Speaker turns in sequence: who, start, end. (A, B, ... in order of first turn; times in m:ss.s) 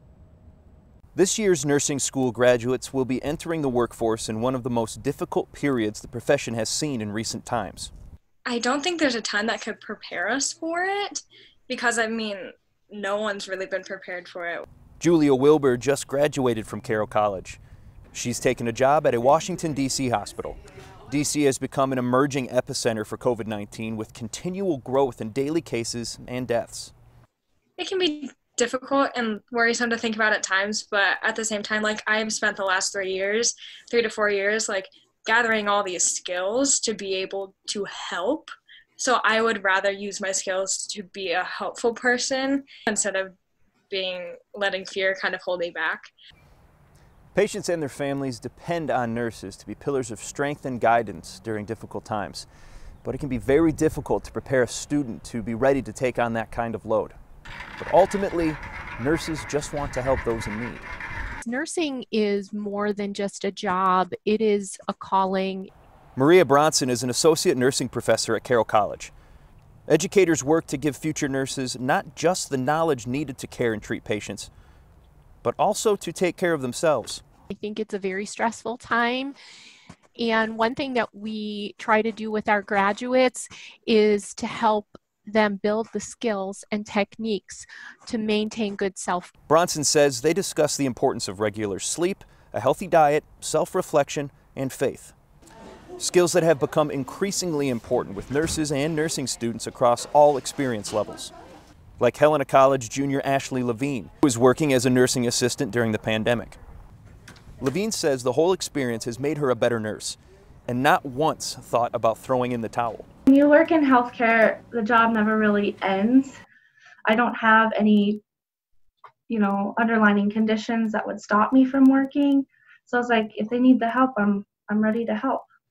0:01.2-0:07.9 A
0:08.4-0:14.6 B
0:15.0-0:17.6 A
0:18.1-0:20.6 A
0:21.1-0:26.9 A
0:27.8-0:43.3 B
0:43.9-0:46.1 B
0:47.3-0:52.5 A
0:53.0-0:57.2 A
0:57.8-1:00.9 A
1:01.4-1:05.7 C
1:06.2-1:09.1 A
1:09.9-1:14.5 A
1:15.4-1:17.2 A
1:17.5-1:19.3 C
1:20.2-1:29.3 C
1:29.5-1:35.1 A
1:36.0-1:41.3 A
1:42.0-1:46.6 A
1:47.6-1:53.1 A
1:53.3-1:56.3 D
1:57.0-1:58.2 D
1:59.3-2:05.5 D